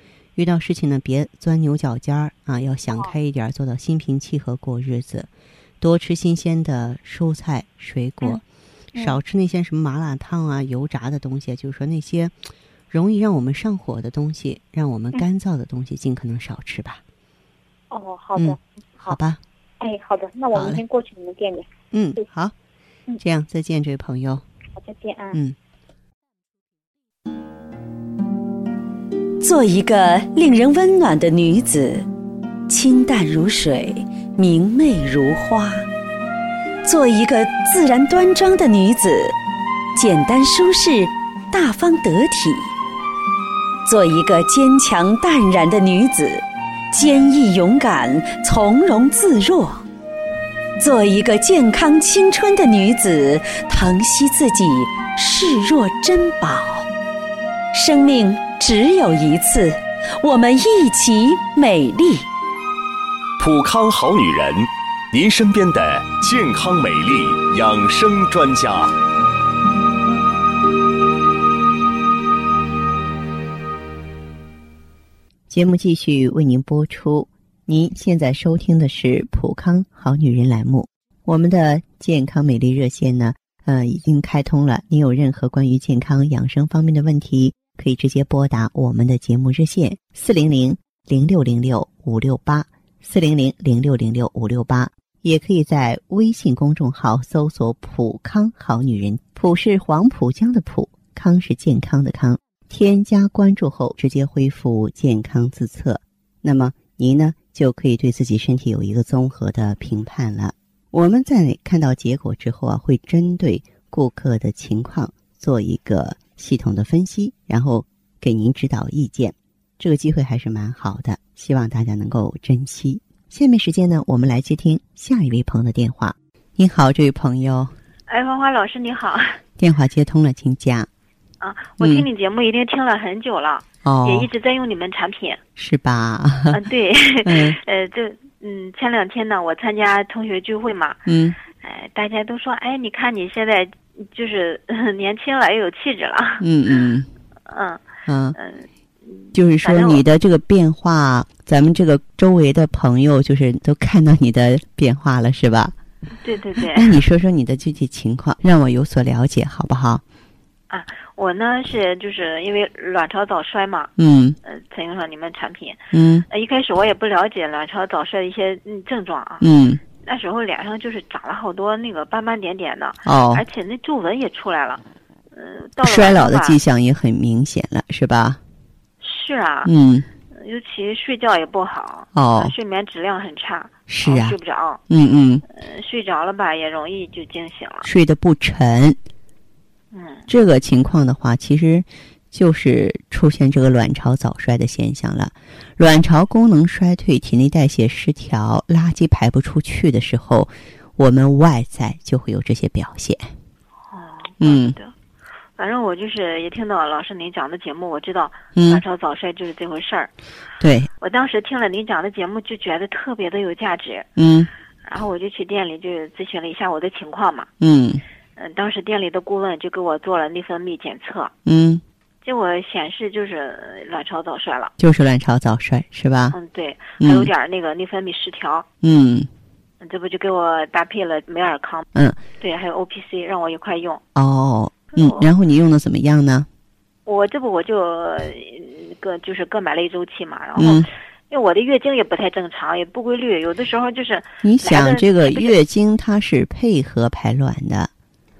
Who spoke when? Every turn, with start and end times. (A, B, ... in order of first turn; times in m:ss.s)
0:00.4-0:05.3 A
0:05.8-0:12.3 A
0:12.9-0:17.0 A
0:17.9-0:19.2 B
0:18.4-0:19.4 A
0:19.8-0:22.2 B
0:20.5-0:20.8 A
0:21.9-0:22.5 A
0:23.2-0:24.4 A
0:24.8-0:25.4 B
0:29.4-0:32.0 C
0:32.7-0:35.8 C
0:36.8-0:39.3 C
0:40.0-0:42.7 C
0:43.8-0:49.8 C
0:50.8-0:56.8 C
0:57.7-1:02.2 C
1:03.4-1:08.9 D
1:15.5-2:07.7 A
2:08.1-2:09.4 E
2:09.6-2:10.9 A
2:11.4-2:15.4 E
2:11.8-2:12.0 A
2:13.8-2:14.3 A
2:15.6-2:16.6 A
2:16.5-2:21.0 E
2:17.2-2:17.6 A
2:21.1-2:21.4 A
2:21.6-2:26.4 E
2:26.4-2:27.1 A
2:27.5-2:27.8 E
2:28.0-2:28.4 A
2:28.3-2:30.0 E
2:29.3-2:35.7 A
2:36.2-2:37.0 E
2:36.6-2:40.0 A
2:40.7-2:43.9 E
2:44.0-2:44.4 A
2:44.4-2:45.8 E
2:45.9-2:46.2 A
2:46.3-2:49.5 E
2:49.4-2:49.8 A
2:50.0-2:56.6 E
2:53.0-2:53.4 A
2:55.8-2:58.4 A
2:59.0-2:59.7 E
2:59.6-3:00.0 A
3:00.3-3:04.8 E
3:02.1-3:02.6 A
3:03.9-3:05.4 A
3:05.5-3:07.9 E
3:07.8-3:09.0 A
3:09.9-3:10.2 E
3:10.3-3:23.2 A
3:23.9-3:24.9 E
3:24.4-3:24.7 A
3:25.6-3:30.1 E
3:28.6-3:28.8 A
3:30.6-3:30.9 A
3:31.0-3:34.0 E
3:34.2-3:34.5 A
3:34.8-3:37.5 E
3:37.6-3:38.0 A
3:38.4-3:41.3 E
3:41.4-3:41.8 A
3:42.2-3:44.7 E
3:44.8-3:46.4 A
3:46.3-3:48.6 E
3:47.0-3:47.3 A
3:48.8-3:49.3 A
3:49.8-3:51.9 E
3:52.4-3:54.0 E
3:54.1-3:56.5 A
3:55.0-3:55.3 E
3:57.0-4:05.5 E
4:00.6-4:00.8 A
4:04.4-4:07.9 A